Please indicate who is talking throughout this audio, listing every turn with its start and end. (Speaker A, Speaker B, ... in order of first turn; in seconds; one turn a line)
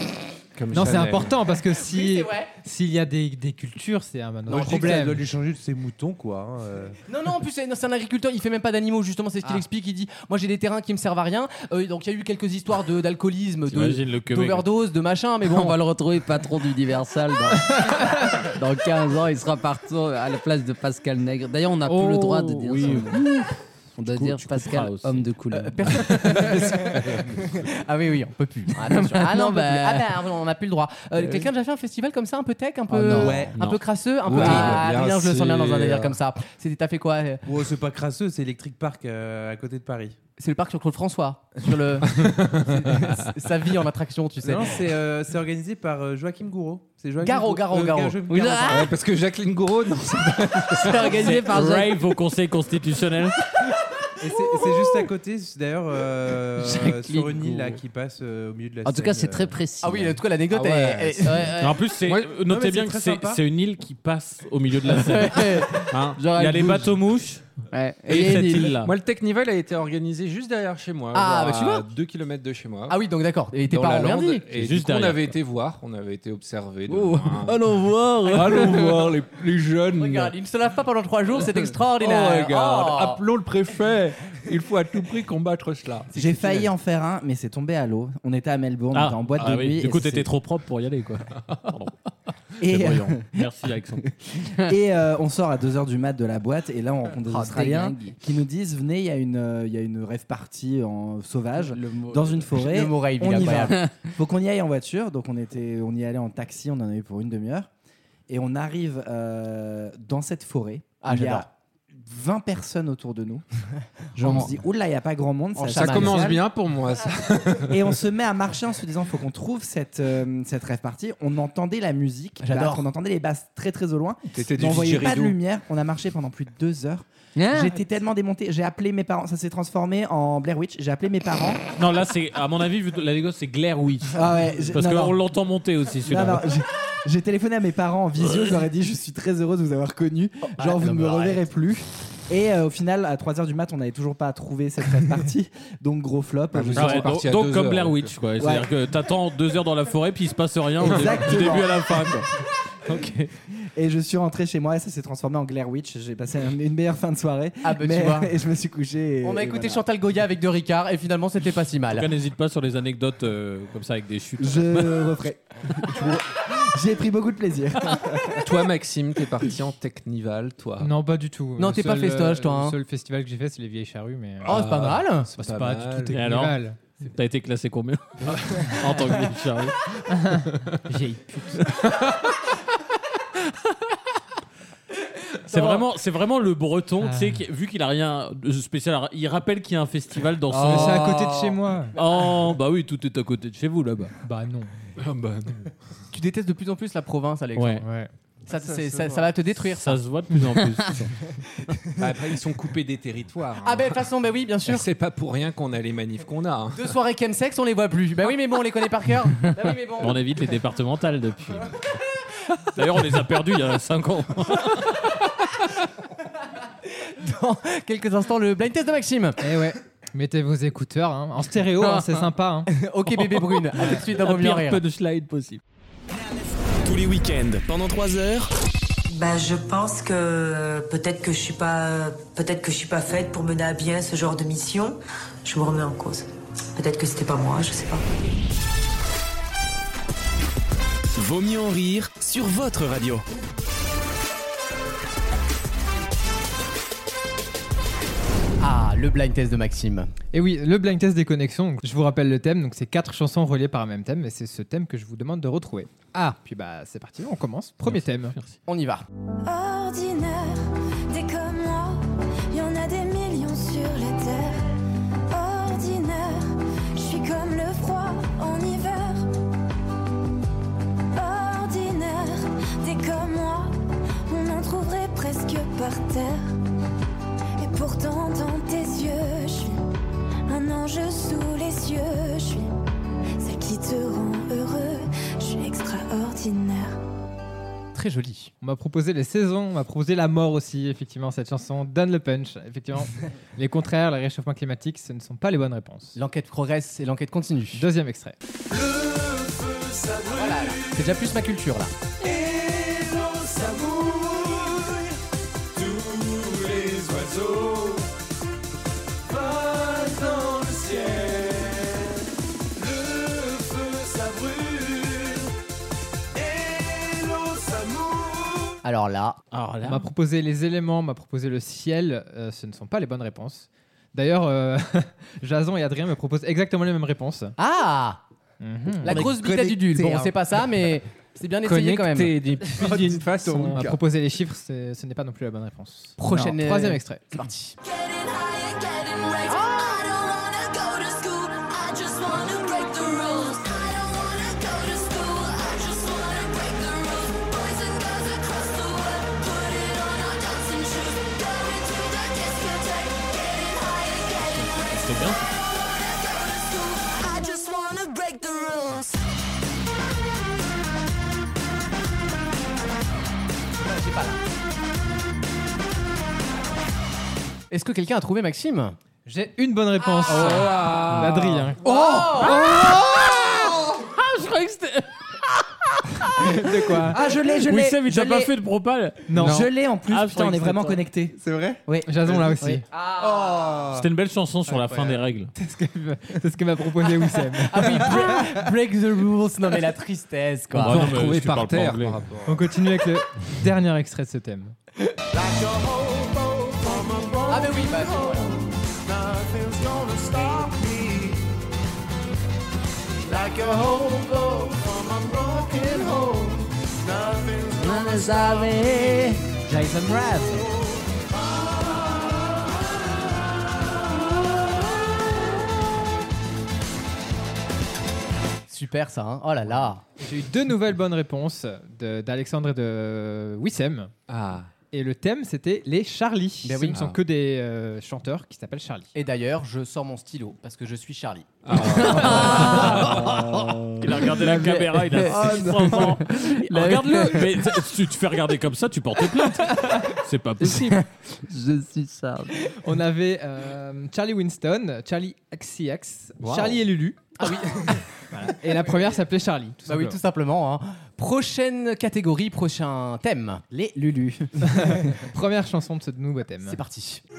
Speaker A: 0.6-1.4
Speaker B: 0.7-5.3
Speaker C: 1.7-2.5
Speaker C: 4.5-5.0
Speaker D: 4.5-7.0
Speaker C: 7.1-15.8
Speaker E: 13.7-14.7
Speaker F: 15.5-26.2
Speaker E: 21.9-23.4
Speaker E: 24.1-25.3
Speaker C: 25.6-37.4
Speaker A: 26.3-27.1
Speaker F: 28.9-30.1
Speaker F: 32.9-33.5
Speaker D: 33.1-33.6
Speaker A: 34.2-36.2
Speaker F: 34.4-34.7
Speaker D: 37.5-40.2
Speaker C: 40.4-44.8
Speaker A: 42.2-43.1
Speaker D: 44.4-48.7
Speaker C: 47.2-48.9
Speaker F: 48.3-48.9
Speaker A: 48.7-51.3
Speaker F: 50.7-52.0
Speaker E: 50.9-53.4
Speaker D: 54.2-59.6
Speaker F: 56.6-57.8
Speaker F: 58.8-60.2
Speaker C: 59.8-61.8
Speaker A: 60.5-61.4
Speaker E: 61.6-67.5
Speaker A: 62.0-62.4
Speaker D: 62.4-63.4
Speaker C: 64.9-65.8
Speaker F: 66.2-66.9
Speaker F: 67.7-68.5
Speaker E: 68.1-68.9
Speaker A: 68.1-73.0
Speaker C: 71.1-71.9
Speaker C: 72.9-74.5
Speaker A: 73.7-77.6
Speaker E: 74.5-75.4
Speaker F: 76.9-79.0
Speaker A: 78.3-80.3
Speaker C: 78.6-78.9
Speaker C: 80.0-83.2
Speaker A: 81.4-86.1
Speaker C: 86.1-86.7
Speaker G: 86.1-90.3
Speaker E: 88.9-91.9
Speaker G: 92.6-93.5
Speaker E: 92.6-94.1
Speaker G: 94.5-107.7
Speaker F: 97.2-98.2
Speaker F: 101.7-102.4
Speaker C: 102.5-103.8
Speaker G: 108.3-113.4
Speaker C: 111.0-111.5
Speaker G: 114.1-116.4
Speaker C: 114.2-114.5
Speaker C: 115.6-116.4
Speaker A: 115.7-117.9
Speaker G: 117.7-131.6
Speaker C: 122.4-122.8
Speaker A: 124.3-125.4
Speaker F: 127.4-127.7
Speaker E: 131.8-136.5
Speaker G: 134.1-135.2
Speaker G: 136.1-147.1
Speaker C: 140.6-141.4
Speaker A: 146.5-148.1
Speaker E: 146.7-152.3
Speaker G: 148.4-148.7
Speaker G: 150.8-151.8
Speaker E: 152.9-153.3
Speaker G: 153.7-159.8
Speaker C: 157.6-158.3
Speaker C: 159.2-162.1
Speaker E: 161.9-165.2
Speaker G: 164.4-168.4
Speaker A: 168.4-170.9
Speaker B: 170.8-174.6
Speaker C: 171.6-172.8
Speaker C: 174.4-175.3
Speaker A: 174.4-176.2
Speaker B: 175.3-176.8
Speaker E: 176.1-179.8
Speaker A: 178.3-178.6
Speaker B: 180.1-181.6
Speaker E: 185.4-191.3
Speaker B: 187.0-187.4
Speaker B: 190.5-191.9
Speaker E: 191.9-194.1
Speaker C: 191.9-192.3
Speaker B: 194.2-194.7
Speaker A: 195.0-195.6
Speaker C: 196.1-197.8
Speaker E: 197.6-197.8
Speaker B: 197.8-198.1
Speaker C: 198.5-200.0
Speaker E: 199.6-201.2
Speaker A: 202.0-204.0
Speaker C: 203.6-204.8
Speaker A: 204.7-206.9
Speaker C: 206.7-210.2
Speaker E: 210.0-211.8
Speaker E: 212.7-215.1
Speaker C: 216.9-219.4
Speaker B: 219.4-222.7
Speaker C: 221.8-224.8
Speaker E: 223.1-225.6
Speaker H: 226.8-228.5
Speaker I: 229.1-238.0
Speaker H: 241.1-243.2
Speaker C: 248.6-250.1
Speaker B: 250.3-258.4
Speaker E: 257.9-258.6
Speaker C: 258.7-259.1
Speaker J: 259.4-264.8
Speaker J: 265.3-269.3
Speaker J: 271.1-273.7
Speaker J: 274.3-276.5
Speaker J: 277.6-279.8
Speaker J: 280.5-282.7
Speaker J: 283.4-287.0
Speaker C: 287.9-288.5
Speaker B: 288.6-296.2
Speaker C: 296.2-297.9
Speaker B: 297.7-298.4
Speaker K: 298.7-301.1
Speaker C: 300.3-301.9
Speaker K: 302.2-305.1
Speaker K: 305.7-308.1
Speaker K: 309.3-312.1
Speaker K: 312.8-315.5
Speaker K: 316.4-318.8
Speaker C: 318.8-319.4
Speaker E: 319.5-320.1
Speaker B: 319.8-327.6
Speaker C: 327.6-328.2
Speaker B: 328.6-329.3
Speaker C: 329.0-332.4
Speaker D: 329.1-330.3
Speaker A: 331.6-334.0
Speaker B: 332.7-337.3
Speaker C: 336.2-337.7
Speaker J: 337.8-359.2
Speaker C: 339.5-340.0
Speaker E: 354.9-355.4
Speaker C: 363.8-364.4
Speaker C: 367.7-369.0
Speaker B: 369.3-371.9
Speaker A: 370.3-371.7
Speaker C: 370.4-370.8
Speaker C: 371.8-372.7
Speaker E: 372.3-376.6
Speaker B: 376.4-377.2
Speaker G: 377.1-378.5
Speaker E: 377.6-379.4
Speaker B: 379.3-379.7
Speaker G: 379.4-381.4
Speaker E: 380.1-381.0
Speaker D: 381.4-381.8
Speaker B: 382.0-382.9
Speaker D: 383.2-384.0
Speaker C: 383.2-383.5
Speaker E: 383.9-385.5
Speaker B: 385.6-388.6
Speaker C: 387.2-391.0
Speaker E: 390.7-392.2
Speaker A: 390.8-392.6
Speaker B: 392.4-394.8
Speaker K: 395.3-401.4
Speaker C: 397.5-398.6
Speaker K: 403.2-409.3
Speaker F: 407.8-409.5
Speaker G: 409.7-410.5
Speaker K: 410.5-410.9
Speaker K: 411.6-412.3
Speaker C: 418.7-420.0
Speaker B: 420.2-424.1
Speaker A: 424.3-424.7
Speaker B: 424.9-429.1
Speaker C: 426.6-427.0
Speaker C: 429.1-431.5
Speaker A: 431.6-433.2
Speaker F: 431.9-432.9
Speaker E: 432.4-441.0
Speaker G: 433.2-434.1
Speaker F: 434.2-437.5
Speaker F: 440.6-442.6
Speaker B: 442.8-447.3
Speaker A: 446.4-446.8
Speaker C: 447.4-448.1
Speaker B: 448.3-450.2
Speaker C: 449.9-453.7
Speaker G: 453.7-454.5
Speaker B: 454.7-456.8
Speaker C: 456.6-457.2